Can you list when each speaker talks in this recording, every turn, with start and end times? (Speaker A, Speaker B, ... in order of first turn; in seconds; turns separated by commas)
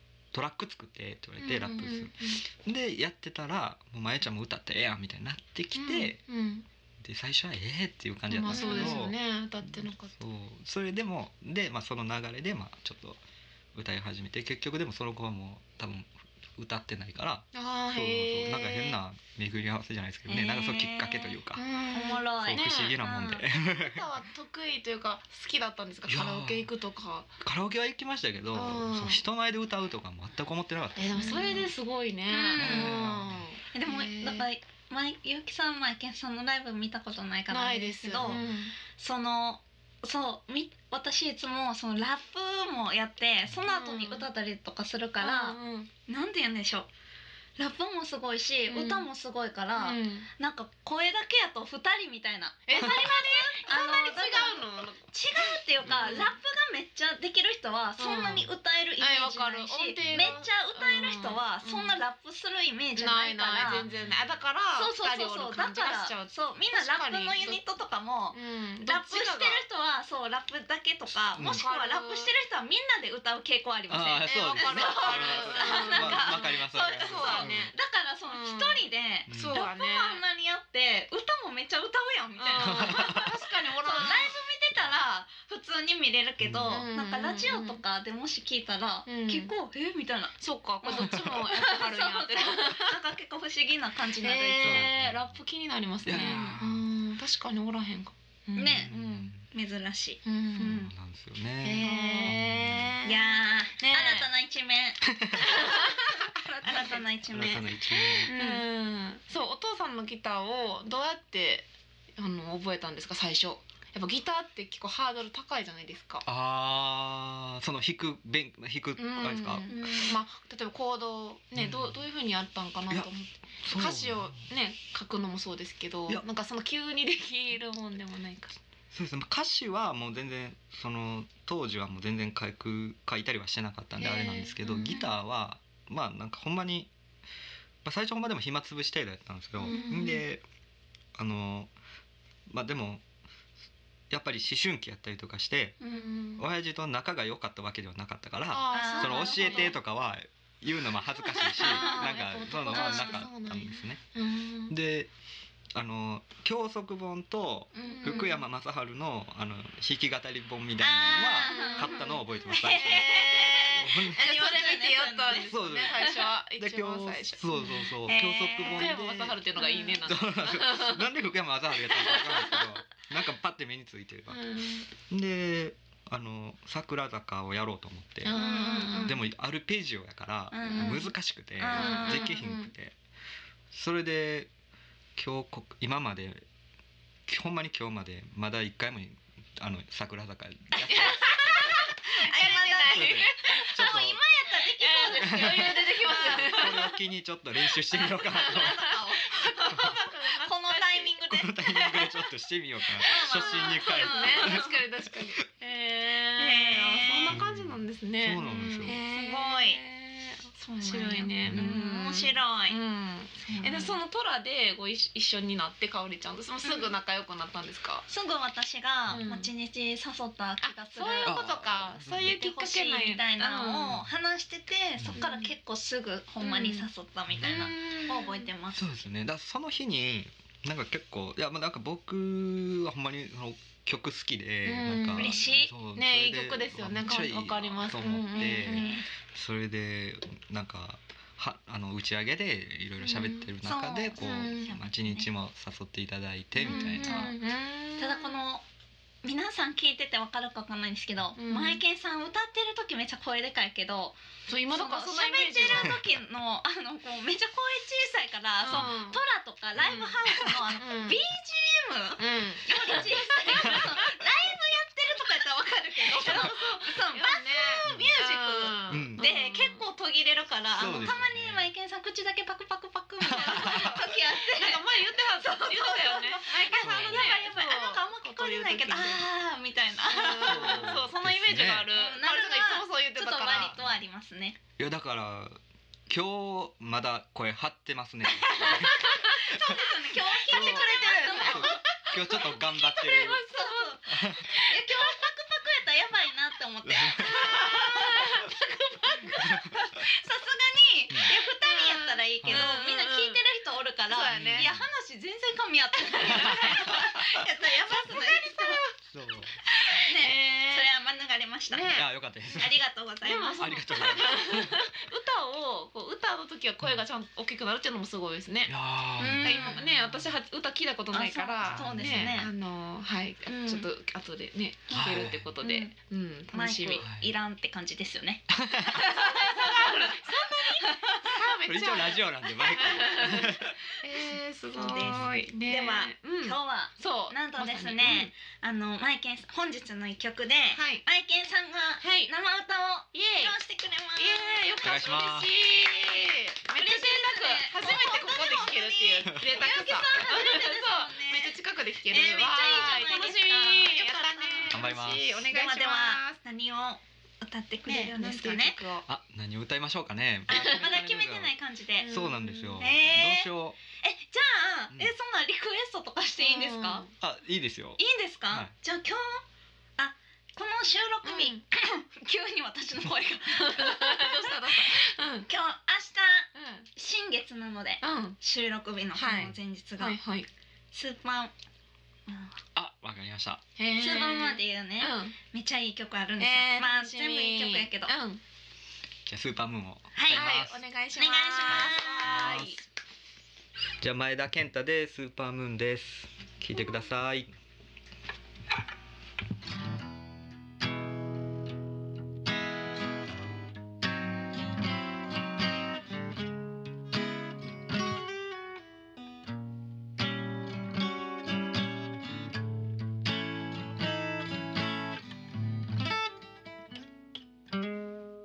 Speaker A: 0.3-6.2, Speaker B: 1.4-2.4, Speaker B: 5.7-6.7, Speaker A: 7.0-13.2, Speaker B: 8.3-10.1, Speaker C: 8.5-9.1, Speaker A: 13.7-21.6, Speaker B: 17.5-19.0, Speaker C: 20.3-21.4, Speaker B: 21.6-23.0, Speaker C: 21.9-23.4, Speaker A: 22.4-24.1, Speaker B: 23.7-27.3, Speaker A: 26.1-26.7, Speaker A: 27.4-31.7, Speaker B: 28.5-29.2, Speaker B: 31.0-34.5, Speaker C: 31.2-31.6, Speaker C: 32.3-33.1, Speaker A: 32.5-33.5, Speaker C: 33.7-46.9, Speaker B: 37.5-38.7, Speaker B: 43.7-44.3, Speaker B: 45.2-45.9, Speaker C: 47.6-63.9, Speaker B: 48.7-49.1, Speaker B: 49.8-50.3, Speaker B: 52.7-56.4, Speaker A: 55.9-56.2, Speaker B: 58.0-62.0, Speaker B: 63.0-67.6, Speaker A: 63.7-64.3, Speaker C: 64.8-83.3, Speaker B: 68.3-69.6, Speaker A: 71.3-71.7, Speaker B: 71.4-72.3, Speaker A: 73.9-77.7, Speaker B: 74.2-77.7, Speaker B: 78.3-80.2, Speaker A: 79.3-79.6, Speaker B: 82.4-84.3, Speaker A: 82.6-83.3, Speaker C: 83.8-94.9, Speaker A: 86.4-86.9, Speaker B: 86.7-87.8, Speaker B: 89.1-89.5, Speaker B: 90.4-93.0, Speaker A: 90.9-91.4, Speaker B: 94.2-99.3, Speaker A: 94.6-95.4, Speaker A: 96.0-96.9, Speaker C: 96.2-96.5, Speaker C: 98.6-100.9, Speaker A: 98.7-99.5, Speaker B: 100.2-100.8, Speaker A: 100.7-102.9, Speaker B: 101.6-104.3, Speaker C: 101.9-102.4, Speaker C: 103.0-108.6, Speaker A: 105.1-105.6, Speaker B: 105.4-107.1, Speaker A: 107.3-108.3, Speaker B: 108.3-116.2, Speaker A: 116.2-119.7, Speaker B: 119.0-128.6, Speaker C: 119.7-120.2, Speaker A: 121.6-122.0, Speaker A: 123.6-124.4, Speaker A: 128.9-136.9, Speaker B: 134.0-135.1, Speaker A: 137.8-140.4, Speaker B: 139.6-140.2, Speaker C: 139.7-140.0, Speaker A: 141.2-141.7, Speaker A: 142.5-143.0, Speaker A: 144.1-145.8, Speaker C: 145.8-146.1, Speaker B: 145.8-146.4, Speaker A: 146.4-154.0, Speaker B: 148.5-149.8, Speaker C: 148.7-149.8, Speaker C: 151.3-152.2, Speaker B: 151.6-154.8, Speaker C: 152.7-153.3, Speaker A: 154.7-155.1, Speaker A: 155.7-164.2, Speaker B: 157.8-158.4, Speaker C: 157.8-158.3, Speaker C: 160.8-166.2, Speaker B: 161.4-167.9, Speaker A: 165.5-169.4, Speaker C: 168.1-168.9, Speaker B: 168.7-171.1, Speaker C: 169.6-170.0, Speaker A: 170.1-174.4, Speaker B: 171.8-172.8, Speaker B: 174.3-174.9, Speaker A: 175.1-178.4, Speaker B: 178.2-179.2, Speaker C: 178.3-179.2, Speaker A: 179.0-183.0, Speaker C: 180.5-182.4, Speaker B: 180.7-181.1, Speaker B: 181.7-182.7, Speaker A: 183.7-184.5, Speaker A: 185.2-186.4, Speaker A: 187.3-191.7, Speaker B: 190.8-194.0, Speaker C: 192.2-196.8, Speaker A: 192.8-194.2, Speaker B: 194.8-197.0, Speaker A: 195.1-198.9, Speaker C: 198.0-202.1, Speaker B: 198.2-201.2, Speaker A: 201.3-204.8, Speaker C: 203.0-204.7, Speaker B: 203.0-218.1, Speaker C: 206.4-207.4, Speaker A: 207.3-209.0, Speaker C: 208.8-209.8, Speaker C: 210.6-212.8, Speaker A: 211.4-211.7, Speaker C: 213.4-214.0, Speaker C: 216.6-216.9, Speaker C: 218.1-221.5, Speaker B: 219.1-219.5, Speaker B: 220.6-224.1, Speaker A: 221.2-222.4, Speaker C: 222.1-228.9, Speaker B: 225.2-225.5, Speaker B: 226.4-226.9, Speaker A: 227.4-227.7, Speaker B: 227.4-228.5, Speaker A: 228.7-247.3, Speaker B: 234.7-235.4, Speaker C: 235.2-235.7, Speaker B: 235.9-239.0, Speaker C: 238.3-239.1, Speaker B: 243.0-243.5, Speaker C: 243.6-245.3, Speaker B: 244.2-244.8, Speaker B: 246.6-248.4, Speaker C: 246.6-247.4, Speaker C: 248.0-248.6, Speaker C: 249.2-254.2, Speaker B: 251.4-251.8, Speaker B: 254.5-256.0, Speaker C: 254.7-281.0, Speaker B: 258.6-259.2, Speaker B: 259.8-261.2, Speaker B: 262.2-264.1, Speaker A: 263.6-263.9, Speaker B: 266.0-269.9, Speaker A: 266.2-266.5, Speaker A: 267.9-268.1, Speaker A: 268.9-269.2, Speaker A: 270.8-271.7, Speaker B: 270.8-271.2, Speaker A: 273.3-274.0, Speaker B: 273.3-279.3, Speaker A: 276.8-277.4, Speaker B: 280.1-283.8, Speaker A: 280.4-281.9, Speaker C: 281.9-284.6, Speaker A: 283.5-283.9, Speaker A: 284.8-289.8, Speaker C: 288.3-291.8, Speaker B: 288.8-289.4, Speaker A: 290.4-293.5, Speaker B: 290.6-295.2, Speaker C: 293.1-298.4, Speaker A: 294.1-294.5, Speaker A: 296.9-297.8, Speaker B: 297.2-299.8, Speaker C: 299.1-308.8, Speaker B: 301.4-303.4, Speaker A: 302.4-302.7, Speaker B: 304.1-304.7, Speaker A: 304.3-304.9, Speaker B: 306.1-308.9, Speaker A: 306.2-307.2, Speaker A: 309.1-309.6, Speaker B: 309.9-310.9, Speaker C: 309.9-312.0, Speaker B: 311.7-312.1, Speaker A: 311.9-312.8, Speaker C: 312.6-314.3, Speaker B: 313.2-318.8, Speaker A: 313.6-314.9, Speaker A: 318.7-319.8, Speaker C: 319.2-319.9, Speaker B: 319.4-327.1, Speaker C: 321.1-322.5, Speaker A: 321.6-322.4, Speaker C: 323.5-323.9, Speaker C: 324.9-325.9, Speaker A: 324.9-325.5, Speaker C: 326.5-331.3, Speaker A: 327.0-327.3, Speaker A: 328.5-329.3, Speaker B: 329.0-338.3, Speaker A: 331.6-333.8, Speaker C: 334.8-344.9, Speaker A: 335.0-335.4, Speaker B: 340.7-341.0, Speaker B: 342.0-342.3, Speaker B: 343.1-343.6, Speaker B: 344.2-356.4, Speaker A: 344.8-345.5, Speaker C: 346.8-351.6, Speaker C: 352.1-354.9, Speaker A: 354.7-355.4, Speaker C: 355.5-358.8, Speaker B: 357.9-359.1, Speaker A: 359.1-363.8, Speaker C: 360.5-362.1, Speaker B: 362.0-362.9, Speaker C: 362.8-367.1, Speaker B: 366.4-367.1, Speaker A: 367.2-368.7, Speaker C: 368.0-369.4, Speaker C: 370.0-374.9, Speaker B: 371.2-371.6, Speaker B: 373.5-375.5, Speaker C: 375.5-380.2, Speaker B: 376.5-376.9, Speaker B: 378.0-378.4, Speaker B: 379.1-380.5, Speaker C: 380.9-381.5, Speaker C: 382.3-382.6, Speaker A: 382.8-383.6, Speaker B: 383.8-385.4, Speaker C: 384.0-388.1, Speaker B: 386.4-388.4, Speaker A: 389.3-390.8, Speaker C: 390.1-390.5, Speaker B: 390.3-392.8, Speaker C: 391.1-392.8, Speaker A: 392.3-392.8, Speaker A: 394.0-397.5